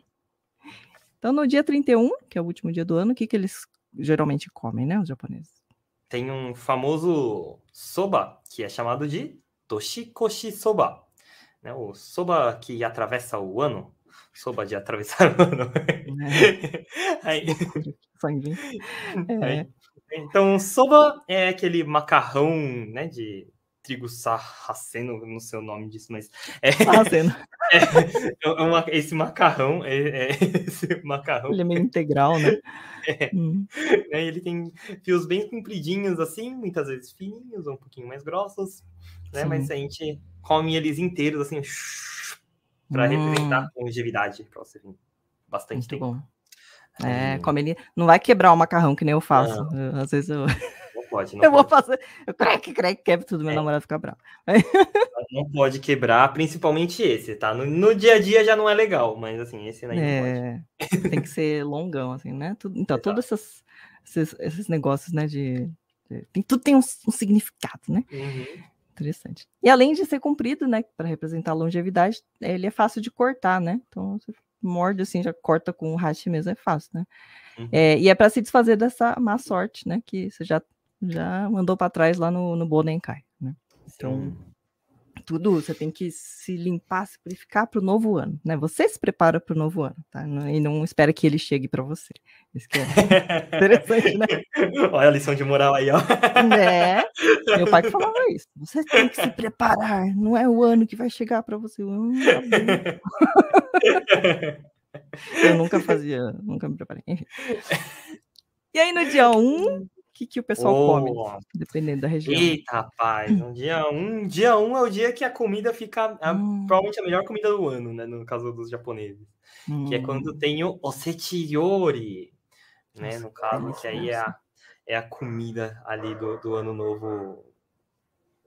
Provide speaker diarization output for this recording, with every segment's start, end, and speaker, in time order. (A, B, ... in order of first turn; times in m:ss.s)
0:01.2-0:05.5 A
0:06.1-0:11.1 B
0:11.6-0:17.7 B
0:16.0-0:16.6 A
0:17.4-0:18.6 A
0:19.2-0:19.7 A
0:19.4-0:27.2 B
0:26.9-0:27.4 A
0:27.7-0:31.8 B
0:31.5-0:32.6 A
0:32.5-0:42.4 B
0:33.3-0:33.7 A
0:39.3-0:39.7 A
0:42.9-0:43.7 A
0:42.9-0:46.1 B
0:45.8-0:46.3 A
0:47.0-0:47.5 B
0:47.0-0:50.5 A
0:49.3-0:49.7 B
0:50.9-0:51.7 B
0:51.4-0:55.1 A
0:55.2-1:00.4 B
0:59.9-1:08.1 A
1:00.9-1:01.2 B
1:02.9-1:03.2 B
1:08.1-1:08.6 B
1:08.9-1:17.1 A
1:17.7-1:24.4 A
1:24.0-1:24.4 B
1:25.2-1:34.3 A
1:32.9-1:38.1 B
1:36.3-1:44.0 A
1:42.2-1:43.0 B
1:43.8-1:44.6 B
1:45.3-1:47.4 A
1:45.4-1:45.9 B
1:47.4-1:47.8 B
1:48.7-1:52.6 A
1:49.2-1:49.9 B
1:50.6-1:51.4 B
1:52.2-2:02.4 B
1:56.2-1:56.8 A
1:59.7-2:00.3 A
2:02.9-2:07.5 B
2:03.0-2:04.3 A